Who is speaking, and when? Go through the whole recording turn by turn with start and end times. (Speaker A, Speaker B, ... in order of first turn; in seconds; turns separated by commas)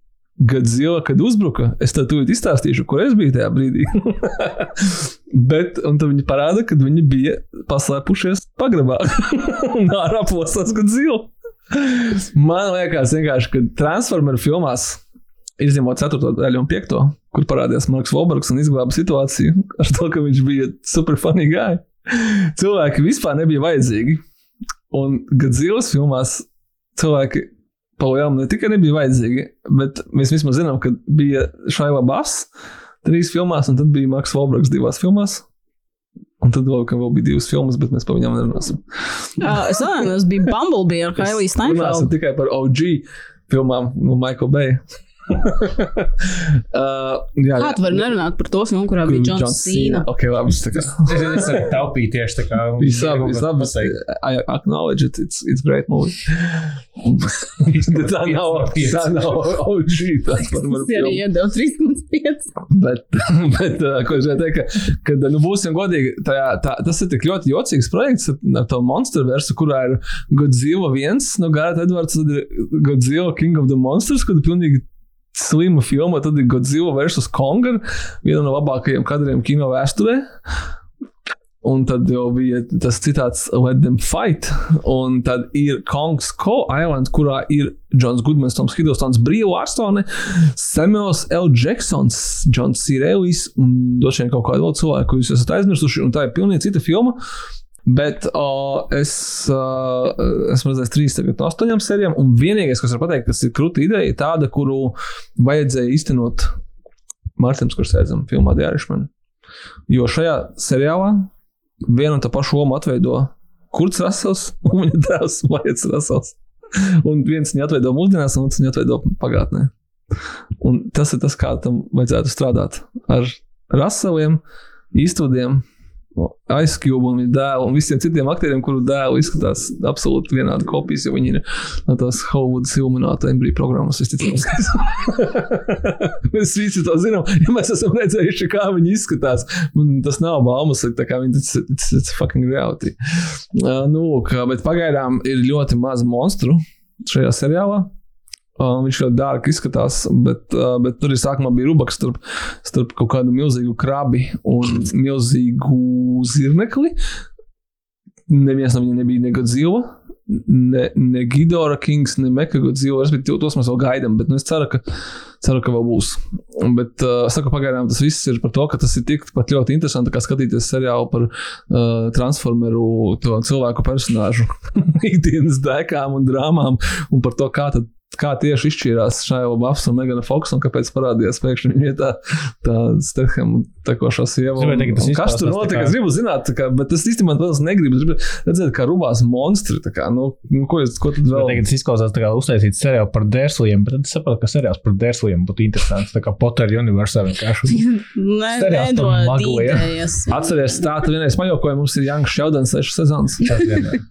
Speaker A: 0.4-15.0, Speaker A: 15.6-24.2, Speaker A: 24.9-32.5, Speaker A: 33.0-35.5, Speaker A: 36.4-39.8, Speaker B: 39.4-42.1, Speaker A: 41.2-48.1, Speaker B: 47.6-50.0, Speaker A: 49.0-51.7, Speaker C: 50.7-53.9, Speaker A: 52.8-61.2, Speaker C: 57.6-59.6, Speaker B: 60.7-62.5, Speaker A: 62.7-80.3, Speaker A: 81.6-97.2, Speaker A: 97.8-106.5, Speaker A: 107.4-109.1, Speaker A: 109.9-111.3, Speaker A: 111.8-119.7, Speaker A: 120.6-124.4, Speaker A: 124.9-125.6, Speaker A: 126.2-142.9, Speaker A: 143.5-147.9, Speaker A: 148.6-156.9, Speaker A: 158.3-164.8, Speaker A: 165.4-191.6, Speaker C: 184.6-185.9, Speaker C: 191.3-197.8, Speaker B: 197.7-200.4, Speaker C: 198.5-199.9, Speaker A: 200.3-203.6, Speaker C: 203.4-204.0